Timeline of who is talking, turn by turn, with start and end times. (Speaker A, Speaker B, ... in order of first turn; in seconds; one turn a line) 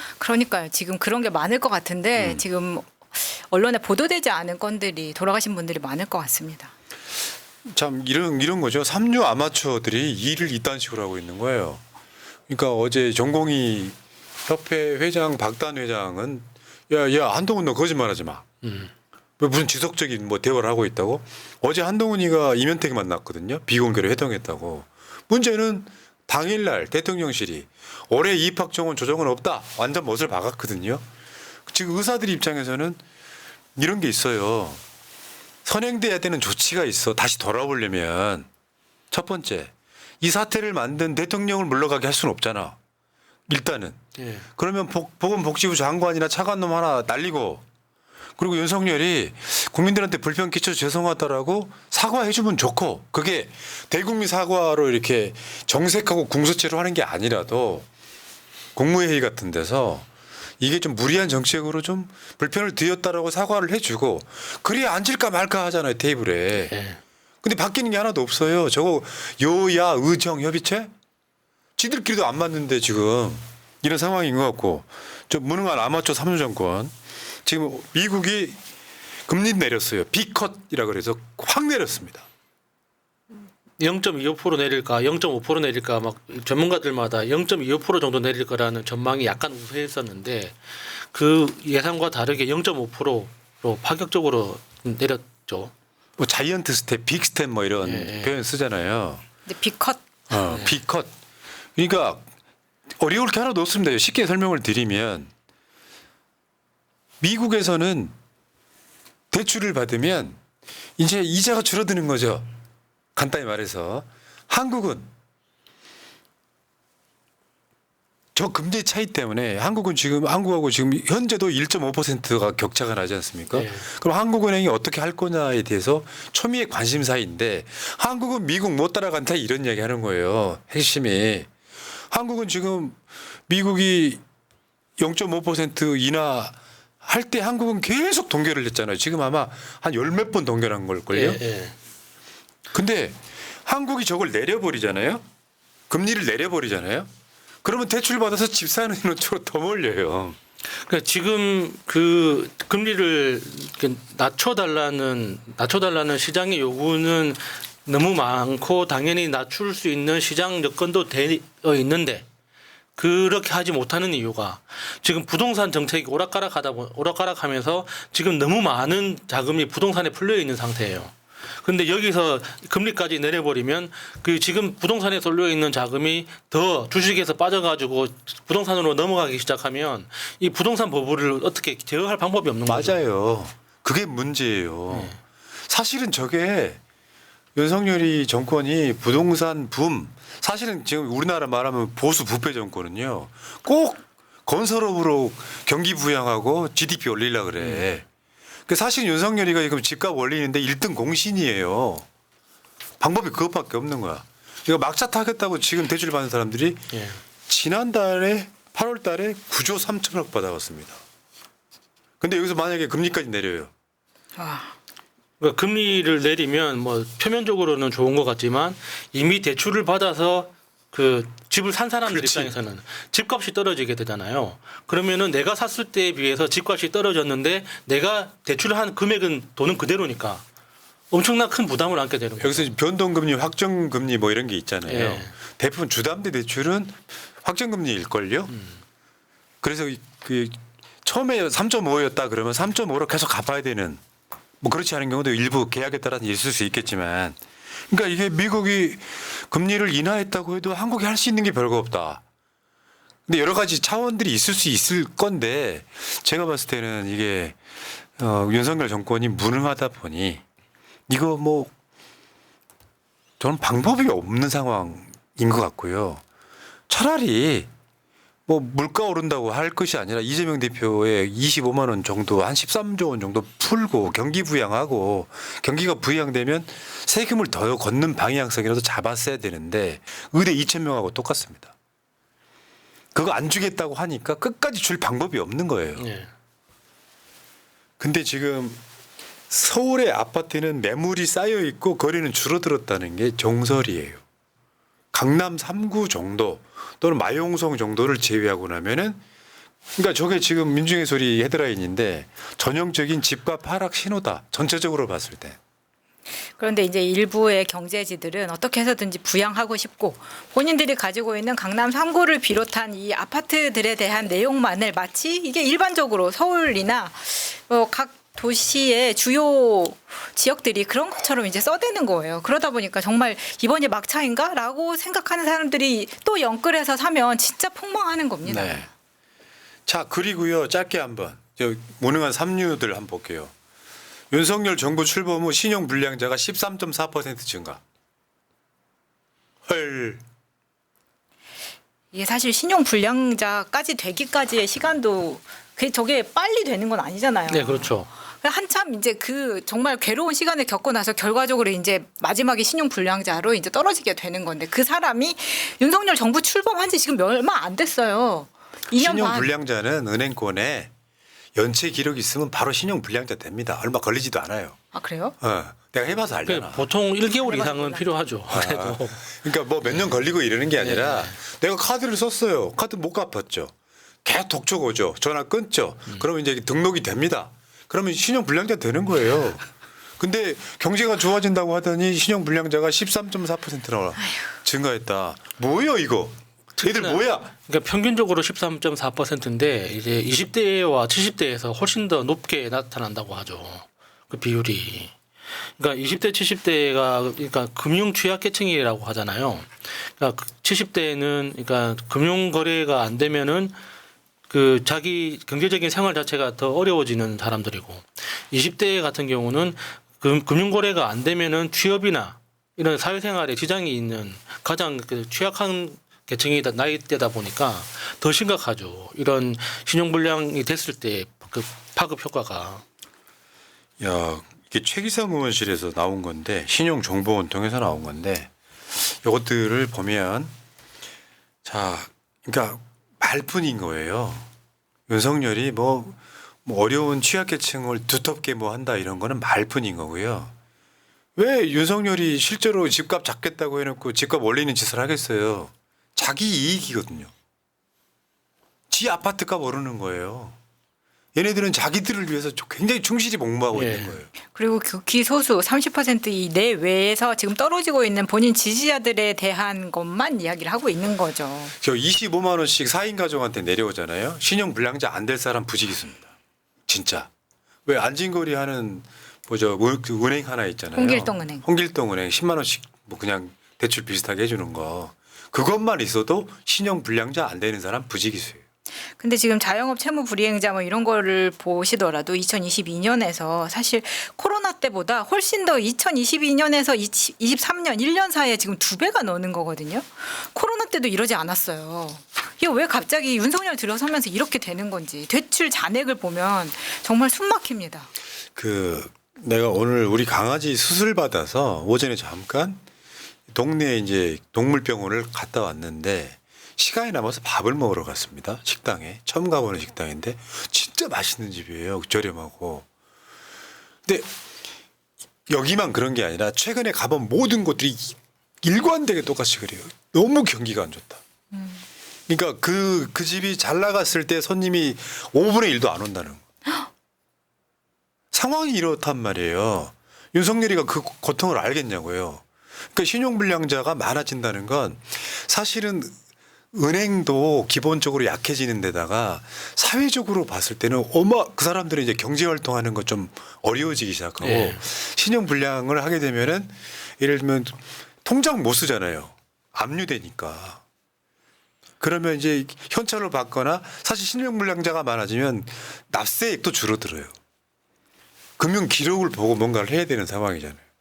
Speaker A: 0.2-6.7
Speaker B: 2.2-2.4
Speaker B: 7.6-11.8
Speaker B: 12.5-18.4
Speaker C: 18.6-18.9
Speaker B: 19.4-31.0
Speaker B: 31.7-33.0
Speaker B: 33.8-34.8
Speaker B: 35.6-38.5
Speaker B: 39.1-42.8
Speaker B: 43.5-44.0
Speaker C: 44.2-44.4
Speaker B: 44.5-47.6
Speaker B: 48.4-57.9
Speaker B: 58.7-60.1
Speaker B: 60.6-66.7
Speaker C: 66.7-67.0
Speaker B: 67.4-70.9
Speaker B: 71.8-76.9
Speaker B: 77.4-78.6
Speaker B: 79.3-82.2
Speaker C: 83.8-95.7
Speaker B: 96.2-99.2
Speaker C: 97.8-98.3
Speaker A: 99.5-100.0
Speaker B: 100.3-101.1
Speaker B: 101.8-102.3
Speaker B: 103.0-105.3
Speaker B: 107.2-108.1
Speaker B: 109.3-110.4
Speaker B: 111.0-112.5
Speaker B: 113.2-115.1
Speaker B: 118.3-131.5
Speaker C: 123.5-123.8
Speaker B: 132.1-134.2
Speaker B: 135.0-141.4
Speaker C: 141.1-141.7
Speaker B: 142.7-145.2
Speaker B: 145.9-147.1
Speaker B: 147.6-150.4
Speaker C: 150.7-162.2
Speaker C: 163.0-183.0
Speaker B: 182.7-185.2
Speaker C: 184.9-185.2
Speaker B: 185.7-186.8
Speaker B: 187.5-198.1
Speaker C: 197.6-197.9
Speaker B: 198.7-202.1
Speaker B: 203.0-206.8
Speaker C: 206.9-207.2
Speaker B: 207.5-211.0
Speaker B: 212.2-213.7
Speaker A: 214.4-214.7
Speaker C: 215.4-230.4
Speaker B: 222.1-222.5
Speaker C: 231.1-232.7
Speaker B: 232.4-238.5
Speaker C: 234.8-235.3
Speaker B: 239.6-244.0
Speaker B: 244.6-247.4
Speaker B: 247.9-252.2
Speaker B: 253.3-257.6
Speaker B: 258.2-260.4
Speaker B: 261.1-261.7
Speaker B: 263.4-266.2
Speaker B: 266.9-267.7
Speaker B: 268.5-281.7
Speaker B: 283.1-286.1
Speaker C: 286.0-286.3
Speaker B: 288.0-288.8
Speaker B: 289.5-294.2
Speaker B: 295.1-299.2
Speaker B: 299.9-305.6
Speaker A: 306.6-328.9
Speaker B: 328.4-328.9
Speaker B: 329.9-333.5
Speaker B: 334.3-337.8
Speaker B: 339.7-340.2
Speaker A: 342.1-359.5
Speaker C: 347.5-348.1
Speaker B: 358.9-360.9
Speaker B: 361.6-364.8
Speaker A: 364.9-365.3
Speaker B: 365.4-366.9
Speaker C: 366.4-369.2
Speaker A: 367.2-368.1
Speaker B: 368.5-373.7
Speaker C: 369.9-370.1
Speaker C: 370.8-371.3
Speaker B: 374.2-379.7
Speaker B: 380.2-387.5
Speaker C: 386.8-395.1
Speaker C: 395.8-403.7
Speaker C: 404.5-422.8
Speaker B: 424.0-428.5
Speaker B: 429.1-430.5
Speaker B: 431.6-434.5
Speaker B: 435.1-440.5
Speaker B: 441.4-447.3
Speaker B: 448.9-450.6
Speaker B: 451.3-454.3
Speaker C: 453.7-454.1
Speaker A: 454.5-461.7
Speaker B: 461.8-466.3
Speaker B: 466.9-467.3
Speaker B: 467.9-478.6
Speaker A: 470.9-471.6
Speaker A: 479.2-498.1
Speaker B: 498.5-502.8
Speaker B: 503.5-512.9
Speaker B: 514.0-514.3
Speaker B: 515.5-521.2
Speaker A: 521.5-521.8
Speaker B: 522.3-526.4
Speaker B: 528.3-536.1
Speaker B: 536.7-550.8
Speaker C: 544.4-544.8
Speaker B: 552.0-557.3
Speaker B: 558.6-560.8